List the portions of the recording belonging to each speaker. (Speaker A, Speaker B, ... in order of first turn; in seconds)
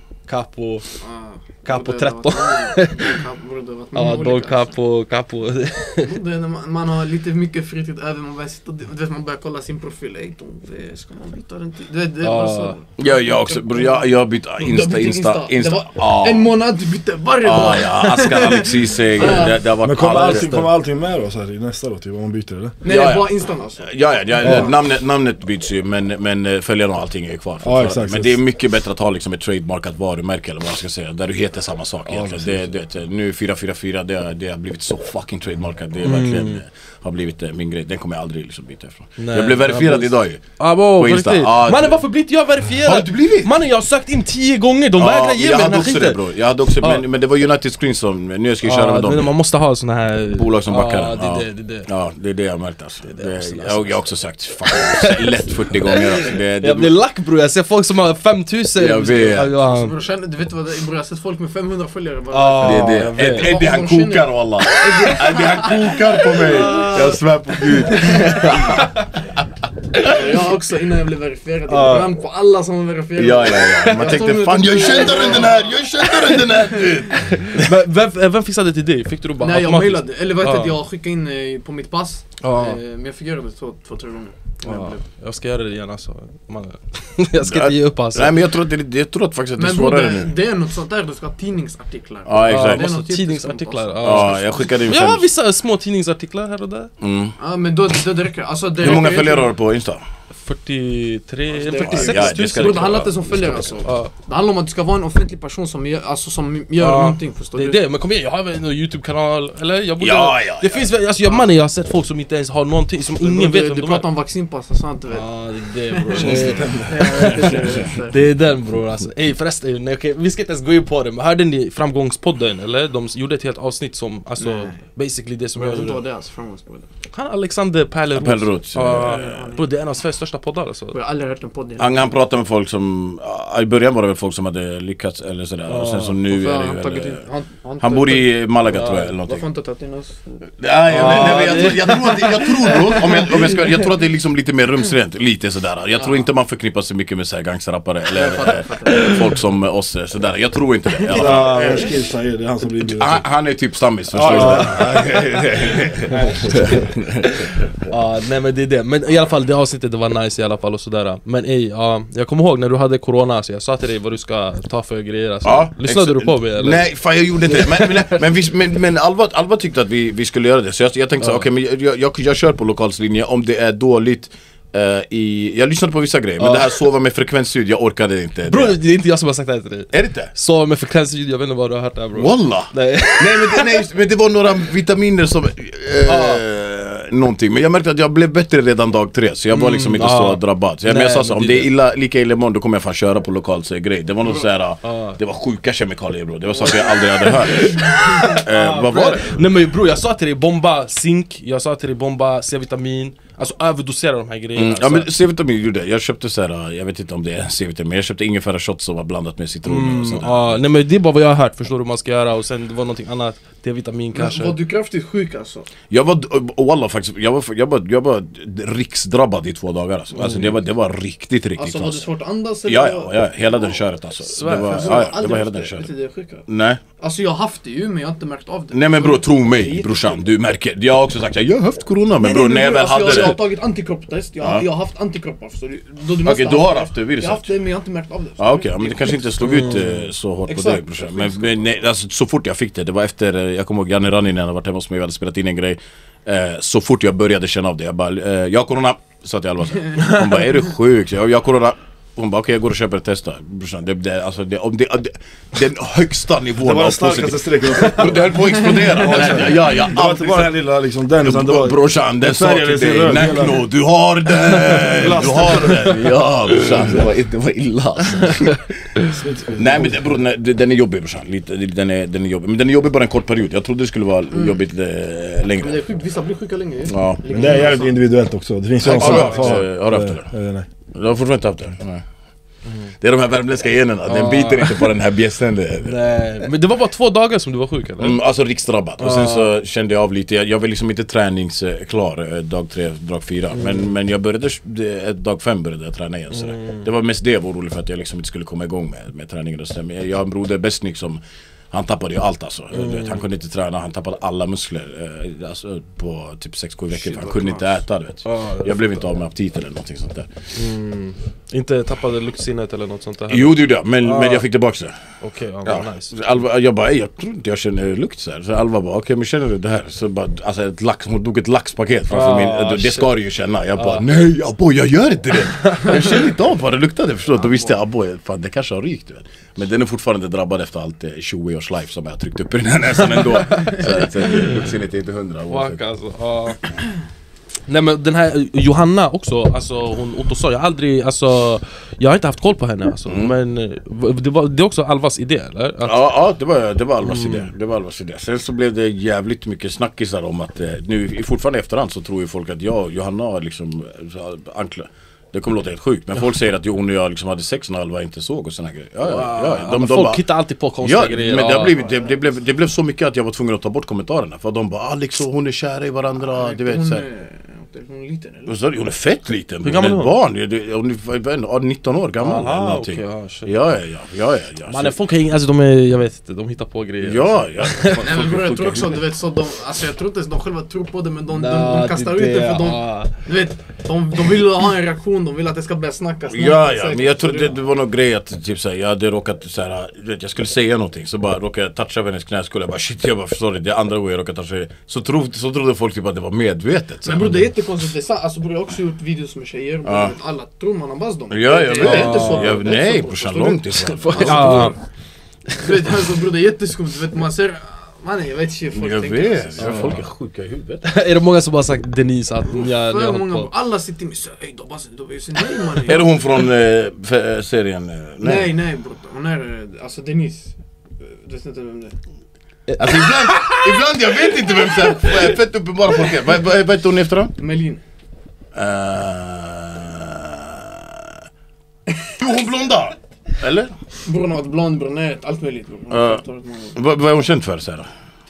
Speaker A: 0.3-0.9, 1.6-3.2, 3.9-6.1, 12.2-12.8, 20.3-20.7, 36.0-36.6, 39.2-46.2, 48.6-51.9, 53.0-54.0, 54.7-59.9, 62.3-63.5, 68.2-68.8, 71.7-72.1, 77.3-80.8, 82.4-82.8, 84.6-88.4, 92.4-96.9, 100.4-103.0, 103.8-104.1, 106.8-114.1, 115.1-126.0, 127.1-130.9, 135.7-136.2, 138.7-139.1, 140.9-142.2, 154.3-154.7, 157.8-168.2, 171.2-171.5, 176.4-176.8, 178.5-183.7, 186.1-186.4, 189.5-191.7, 194.8-195.2, 196.7-205.1, 209.6-214.6, 220.2-220.5, 224.4-225.0, 239.4-239.8, 282.6-282.9, 284.1-284.9, 285.8-288.2, 289.0-289.5, 293.6-293.9, 296.3-296.8, 302.7-303.2, 308.2-308.9, 310.5-314.4, 315.2-316.2, 322.1-323.1, 323.8-324.0, 333.4-333.9, 335.5-336.7, 337.7-346.1, 347.0-347.5, 359.0-361.7, 369.6-370.1, 372.2-373.5, 374.7-378.0, 381.3-383.2, 401.8-402.6, 404.0-404.8, 409.6-410.1, 410.8-413.5, 415.4-416.1, 422.7-425.3
Speaker B: 1.0-4.7, 6.0-19.7, 22.8-24.8, 59.6-67.2, 67.7-68.9, 70.0-76.4, 79.4-85.0, 89.6-94.7, 97.4-99.5, 101.5-107.8, 113.2-118.2, 124.4-124.8, 125.5-126.9, 128.8-129.7, 130.9-132.1, 136.3-138.4, 139.2-143.6, 146.0-146.2, 148.1-149.2, 151.1-151.4, 214.1-215.7, 221.6-223.8, 224.3-226.4, 227.0-230.2, 232.2-239.3, 240.5-241.6, 258.6-259.4, 274.3-274.6, 275.6-278.0, 278.9-279.3, 306.9-307.8, 327.4-327.7, 361.6-362.3, 366.3-368.5, 378.0-387.6, 397.0-404.7, 405.6-409.9, 412.4-416.1, 418.2-421.9, 427.4-427.8, 434.0-436.8
Speaker C: 13.0-16.5, 17.4-20.6, 22.9-42.0, 42.8-43.5, 45.0-49.3, 50.3-56.9, 58.8-59.5, 62.6-68.9, 73.2-77.4, 87.4-90.3, 92.2-92.8, 94.0-95.2, 97.0-97.3, 98.8-100.0, 101.8-103.6, 110.0-110.9, 128.1-129.5, 131.8-137.2, 137.8-139.4, 140.6-151.9, 152.8-157.5, 165.4-178.8, 179.9-180.3, 182.1-199.4, 204.6-210.6, 215.9-222.1, 222.7-225.9, 226.4-226.8, 228.7-233.4, 234.4-234.7, 236.2-237.5, 238.4-260.5, 261.2-268.7, 269.6-275.8, 276.9-277.4, 278.8-280.3, 280.9-282.0, 283.0-286.0, 288.0-301.2, 301.7-310.3, 313.3-315.0, 315.6-335.8, 343.1-343.3, 345.8-360.2, 360.8-367.0, 368.5-374.9, 377.0-379.0, 386.3-397.5, 399.8-400.1, 401.3-404.8, 408.7-410.9, 415.8-418.5, 422.8-427.3, 428.5-430.8, 432.2-433.7, 435.9-437.9
Speaker D: 19.6-22.8, 27.6-28.4, 32.1-32.7, 116.1-117.8, 151.1-153.3, 154.1-155.0, 156.1-157.0, 256.6-263.6, 264.8-265.9, 266.7-267.1, 269.1-270.0, 277.3-280.7